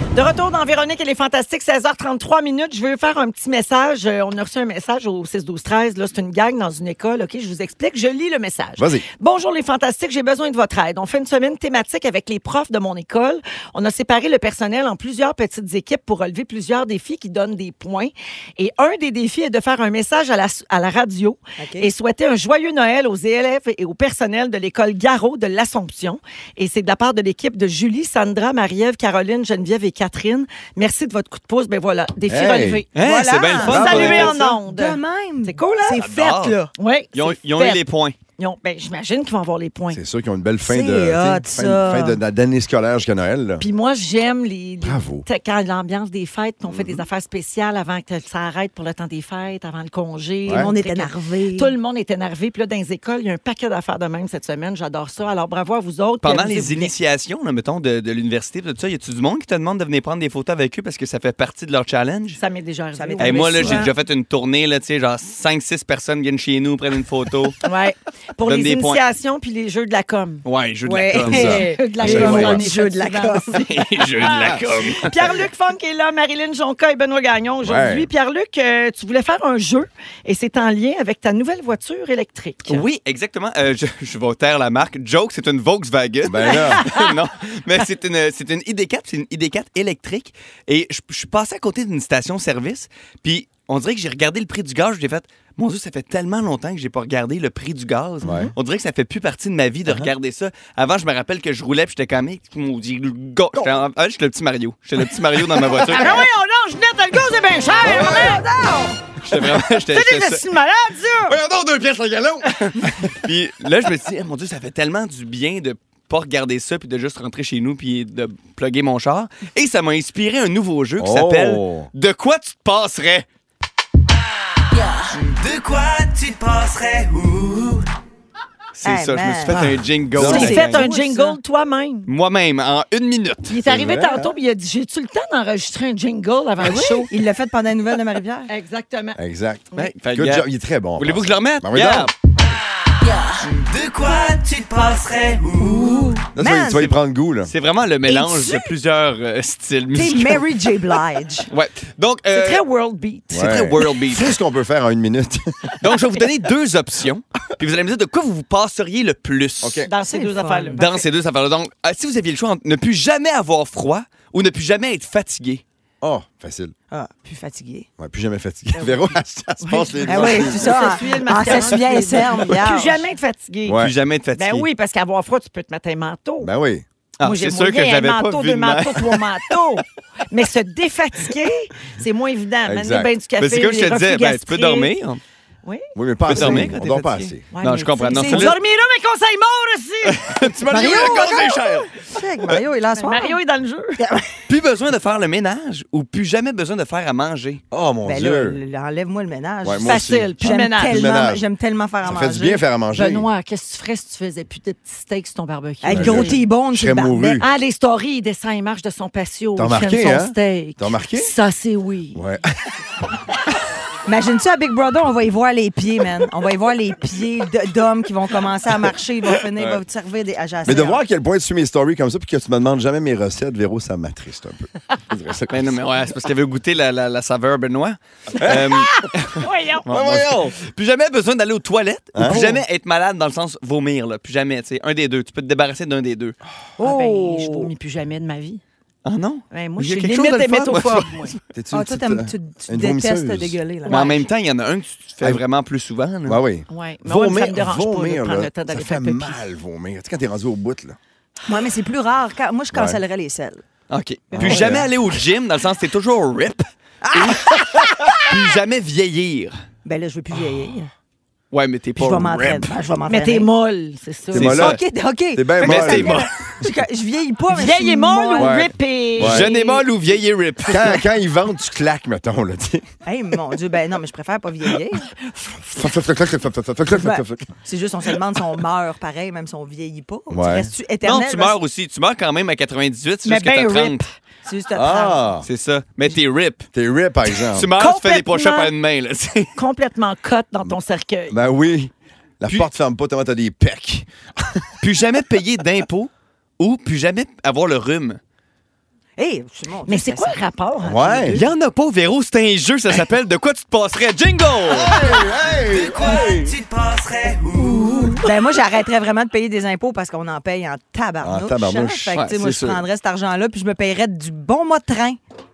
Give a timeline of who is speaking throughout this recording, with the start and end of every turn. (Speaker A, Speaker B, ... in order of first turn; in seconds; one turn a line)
Speaker A: 0.1-32.9
Speaker B: 8.8-9.1
Speaker C: 21.6-21.9
Speaker B: 32.3-32.8
Speaker D: 32.9-34.4
Speaker C: 33.0-36.7
Speaker A: 33.6-36.0
Speaker B: 33.6-34.4
Speaker D: 35.9-36.6
Speaker A: 36.8-37.8
Speaker D: 37.1-38.1
Speaker A: 38.4-40.0
Speaker B: 39.9-43.6
Speaker C: 40.6-42.2
Speaker A: 43.6-56.9
Speaker B: 44.8-45.2
Speaker B: 46.7-47.0
Speaker C: 50.5-51.7
Speaker D: 56.2-62.4
Speaker A: 62.3-63.9
Speaker C: 63.0-63.9
Speaker D: 63.2-67.6
Speaker A: 67.6-70.4
Speaker D: 68.4-69.0
Speaker D: 70.4-72.5
Speaker C: 70.8-73.6
Speaker B: 71.2-72.6
Speaker A: 71.3-82.8
Speaker D: 73.5-75.1
Speaker B: 77.6-78.1
Speaker D: 82.7-106.2
Speaker B: 86.2-86.9
Speaker A: 86.5-87.0
Speaker B: 98.2-98.5
Speaker A: 105.8-108.5
Speaker C: 107.8-109.0
Speaker B: 107.8-108.3
Speaker D: 107.9-108.2
Speaker D: 109.2-110.5
Speaker A: 109.9-111.4
Speaker D: 111.3-123.2
Speaker B: 121.0-121.9
Speaker E: 125.1-127.8
Speaker D: 128.7-130.9
Speaker C: 128.8-131.4
Speaker B: 129.5-130.6
Speaker A: 130.2-132.1
Speaker D: 132.1-133.6
Speaker A: 133.5-137.1
Speaker B: 133.7-134.3
Speaker C: 136.6-138.5
Speaker A: 138.5-139.2
Speaker B: 139.2-142.1
Speaker D: 139.7-140.5
Speaker D: 141.0-142.1
Speaker E: 143.4-146.3
Speaker C: 145.9-146.9
Speaker B: 146.3-147.5
Speaker D: 147.4-150.5
Speaker C: 148.1-148.7
Speaker C: 149.9-151.5
Speaker D: 151.5-152.6
Speaker A: 152.3-153.6
Speaker D: 153.3-154.3
Speaker B: 153.3-155.7
Speaker D: 155.8-159.8
Speaker B: 159.6-159.9
Speaker A: 159.9-161.0
Speaker C: 160.0-160.8
Speaker D: 160.8-165.6
Speaker B: 166.0-166.7
Speaker C: 166.9-167.9
Speaker B: 168.0-170.9
Speaker A: 168.7-169.0
Speaker A: 169.6-173.8
Speaker C: 170.1-173.0
Speaker B: 173.6-173.9
Speaker D: 173.8-174.7
Speaker A: 174.3-176.5
Speaker B: 176.4-176.8
Speaker D: 177.2-179.3
Speaker A: 177.2-184.9
Speaker B: 182.7-183.1
Speaker D: 183.4-185.2
Speaker A: 185.6-185.9
Speaker B: 185.9-187.4
Speaker D: 186.3-188.6
Speaker A: 187.5-191.4
Speaker C: 188.1-188.6
Speaker D: 190.1-192.6
Speaker C: 190.7-193.4
Speaker A: 193.0-194.0
Speaker C: 194.0-194.3
Speaker D: 194.5-197.6
Speaker B: 197.7-198.6
Speaker C: 198.0-202.6
Speaker B: 199.6-201.4
Speaker A: 199.8-201.0
Speaker B: 202.0-203.3
Speaker A: 202.9-206.4
Speaker C: 205.8-207.4
Speaker B: 205.9-207.5
Speaker A: 207.3-212.2
Speaker B: 209.6-211.3
Speaker B: 212.1-212.5
Speaker C: 214.1-221.0
Speaker B: 219.6-219.8
Speaker B: 220.6-225.8
Speaker D: 225.5-236.4
Speaker B: 228.3-228.9
Speaker A: 229.4-229.8
Speaker B: 229.9-230.6
Speaker B: 232.1-232.6
Speaker C: 236.8-237.7
Speaker A: 236.8-238.6
Speaker D: 239.0-241.3
Speaker A: 239.5-241.3
Speaker B: 241.5-243.6
Speaker C: 241.7-244.3
Speaker D: 243.8-246.4
Speaker B: 246.2-251.0
Speaker A: 246.7-249.4
Speaker C: 251.4-253.6
Speaker B: 252.7-253.0
Speaker D: 253.9-257.5
Speaker B: 254.3-254.9
Speaker C: 254.4-254.8
Speaker C: 257.0-258.3
Speaker D: 258.1-259.5
Speaker C: 259.8-260.9
Speaker D: 261.5-262.7
Speaker C: 262.0-263.5
Speaker A: 263.1-264.6
Speaker B: 264.3-264.8
Speaker D: 264.3-264.8
Speaker C: 264.5-268.6
Speaker B: 265.3-266.2
Speaker D: 265.6-266.5
Speaker A: 267.5-269.9
Speaker B: 268.4-269.5
Speaker D: 269.2-271.0
Speaker B: 270.7-272.8
Speaker C: 273.0-275.1
Speaker B: 275.8-277.5
Speaker C: 276.9-281.6
Speaker B: 280.3-280.7
Speaker D: 281.0-284.0
Speaker A: 283.2-284.1
Speaker C: 284.4-285.3
Speaker B: 284.7-285.5
Speaker D: 285.4-286.7
Speaker B: 286.7-287.7
Speaker D: 287.3-289.5
Speaker A: 287.8-288.7
Speaker A: 289.6-291.4
Speaker B: 291.3-294.7
Speaker D: 294.8-298.2
Speaker C: 299.2-300.4
Speaker A: 299.9-301.5
Speaker B: 300.8-301.4
Speaker D: 301.3-305.0
Speaker B: 304.7-306.5
Speaker E: 305.6-308.2
Speaker A: 307.6-308.2
Speaker C: 308.2-315.2
Speaker B: 311.2-312.1
Speaker D: 312.1-312.8